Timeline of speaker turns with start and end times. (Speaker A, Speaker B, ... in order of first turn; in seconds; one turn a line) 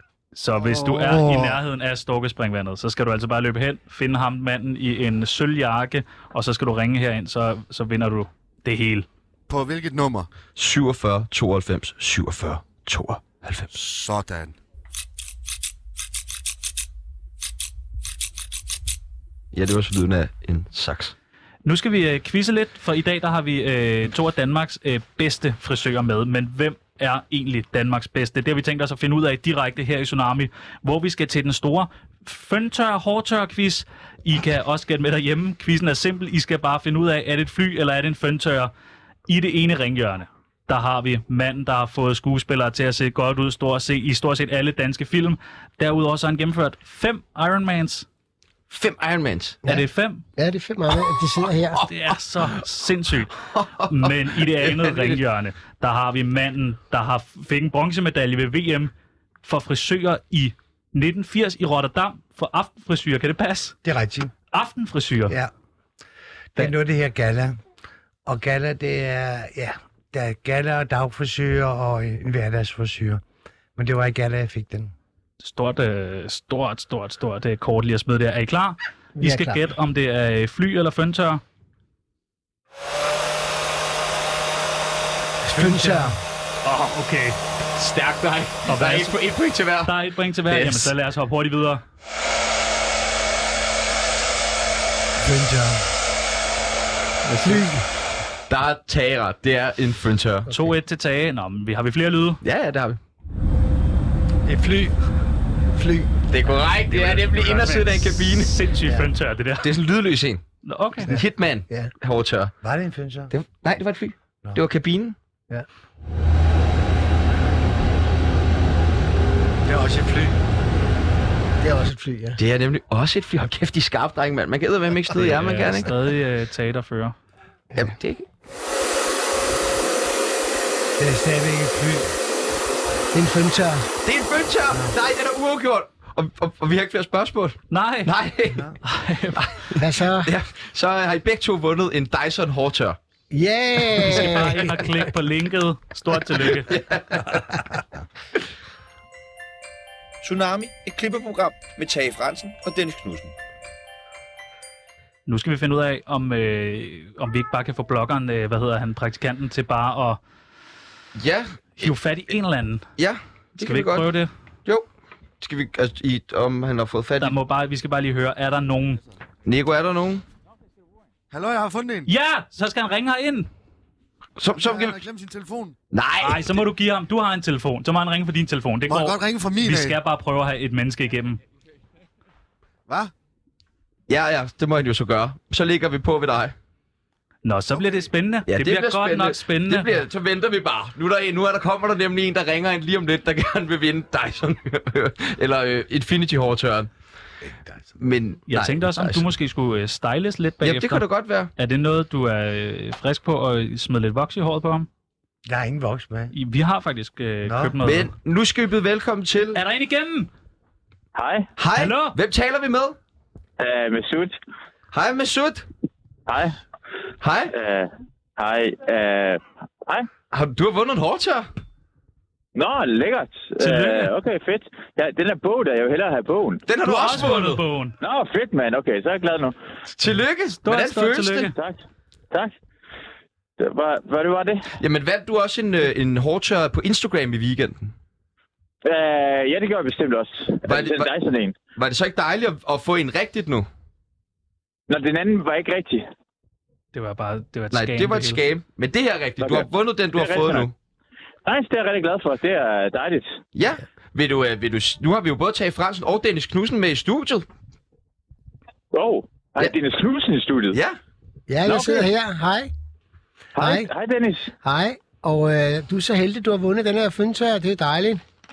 Speaker A: 0.3-9.1
Speaker B: 0.6-1.6
Speaker B: 9.5-10.3
Speaker C: 10.6-13.7
Speaker B: 13.7-14.6
Speaker C: 19.5-21.1
Speaker A: 21.6-38.7
Speaker A: 39.3-48.1
Speaker C: 48.7-49.6
Speaker A: 49.7-50.2
Speaker D: 50.4-51.9
Speaker A: 51.9-53.3
Speaker C: 53.4-55.2
Speaker A: 53.8-58.9
Speaker A: 59.4-63.8
Speaker E: 63.8-64.3
Speaker A: 64.5-65.4
Speaker E: 66.5-67.6
Speaker E: 68.3-73.2
Speaker E: 73.8-74.9
Speaker A: 75.4-81.4
Speaker D: 79.2-79.7
Speaker D: 85.4-86.2
Speaker E: 85.5-86.2
Speaker A: 86.6-87.4
Speaker C: 87.8-89.9
Speaker A: 88.7-89.2
Speaker A: 89.8-91.8
Speaker C: 90.5-90.9
Speaker E: 95.2-95.9
Speaker D: 97.3-97.8
Speaker C: 98.5-100.5
Speaker A: 100.5-102.4
Speaker C: 102.4-103.0
Speaker E: 104.5-105.0
Speaker D: 105.7-106.2
Speaker C: 106.3-108.5
Speaker A: 106.9-109.7
Speaker C: 109.6-110.4
Speaker A: 110.7-111.1
Speaker C: 111.1-112.5
Speaker D: 111.1-111.9
Speaker E: 112.6-113.3
Speaker C: 113.3-115.2
Speaker E: 119.7-120.4
Speaker D: 121.6-122.4
Speaker C: 122.4-125.9
Speaker A: 125.2-127.2
Speaker C: 127.8-128.3
Speaker E: 131.0-132.2
Speaker D: 133.1-133.9
Speaker C: 134.0-138.7
Speaker A: 137.7-138.1
Speaker A: 138.8-139.5
Speaker C: 139.4-143.0
Speaker D: 139.8-140.3
Speaker D: 143.3-144.8
Speaker A: 144.0-146.7
Speaker C: 146.5-147.5
Speaker F: 150.2-153.3
Speaker A: 155.3-160.2
Speaker C: 161.2-161.9
Speaker A: 161.8-162.8
Speaker C: 163.0-164.1
Speaker A: 163.6-164.3
Speaker C: 165.4-167.4
Speaker A: 167.2-169.0
Speaker C: 169.4-170.2
Speaker B: 171.3-172.1
Speaker A: 172.1-173.5
Speaker C: 174.4-175.0
Speaker B: 174.5-175.8
Speaker C: 175.9-176.6
Speaker A: 176.2-181.4
Speaker B: 178.9-180.0
Speaker B: 182.9-183.1
Speaker C: 184.1-186.6
Speaker A: 187.4-190.0
Speaker C: 188.5-196.9
Speaker E: 197.6-197.9
Speaker C: 198.0-199.2
Speaker A: 198.5-201.0
Speaker C: 200.6-201.5
Speaker A: 201.6-204.9
Speaker E: 205.5-206.3
Speaker A: 206.3-208.1
Speaker E: 207.4-207.8
Speaker C: 207.8-209.6
Speaker A: 209.6-210.3
Speaker G: 211.2-211.5
Speaker C: 211.6-213.0
Speaker A: 211.8-212.2
Speaker G: 213.6-214.4
Speaker C: 214.9-215.7
Speaker G: 216.3-216.6
Speaker C: 217.2-217.5
Speaker G: 217.5-220.1
Speaker C: 220.3-221.5
Speaker G: 222.6-226.6
Speaker A: 223.6-224.1
Speaker C: 226.7-227.6
Speaker A: 226.8-228.0
Speaker G: 228.0-229.6
Speaker C: 230.0-231.5
Speaker A: 230.6-231.5
Speaker G: 231.5-231.8
Speaker G: 233.6-234.7
Speaker C: 234.8-237.9
Speaker G: 238.8-241.6
Speaker C: 240.7-241.1
Speaker C: 241.8-243.7
Speaker G: 244.9-246.1
Speaker A: 246.9-248.4
Speaker C: 247.7-250.7
Speaker G: 249.4-250.7
Speaker G: 251.4-253.4
Speaker C: 253.5-257.5
Speaker G: 258.9-260.8
Speaker C: 260.7-261.0
Speaker D: 261.5-262.7
Speaker G: 263.6-264.5
Speaker D: 263.6-263.9
Speaker D: 264.6-268.2